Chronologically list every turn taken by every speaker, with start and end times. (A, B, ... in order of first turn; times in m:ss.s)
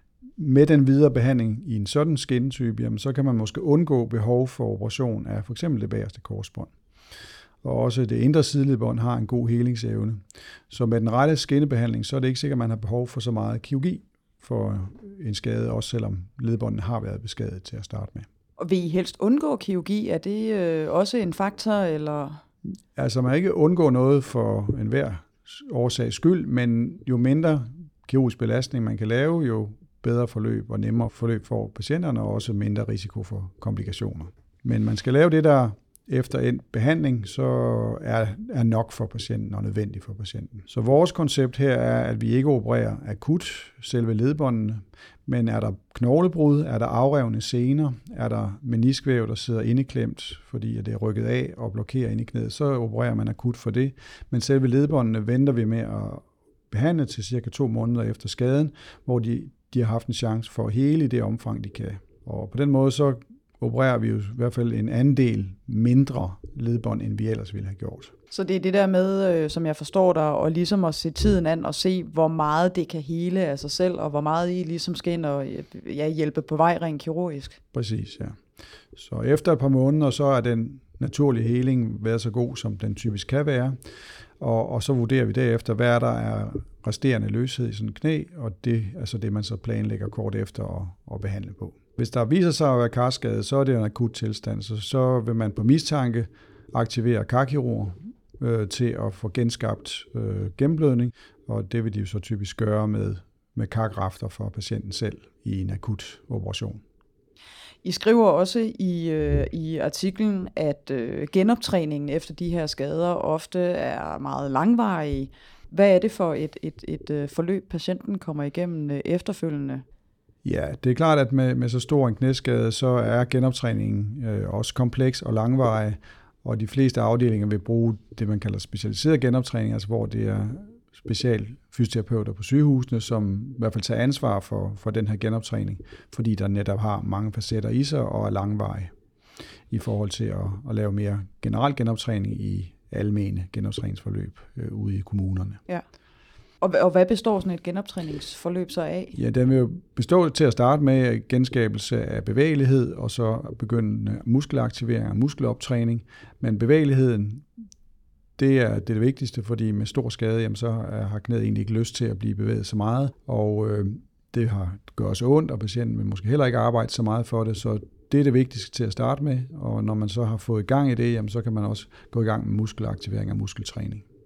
0:00.4-0:06.7 A
0:07.6-0:18.3 A
0:18.6-0:22.4 B
0:23.0-1:08.1 A
1:08.3-1:17.6 B
1:17.7-1:18.4 A
1:19.0-1:23.8 A
1:24.4-1:46.8 A
1:47.8-1:59.8 B
2:00.4-2:18.9 A
2:19.7-2:25.6 A
2:26.6-2:29.2 B
2:29.1-2:37.6 A
2:38.4-2:54.0 A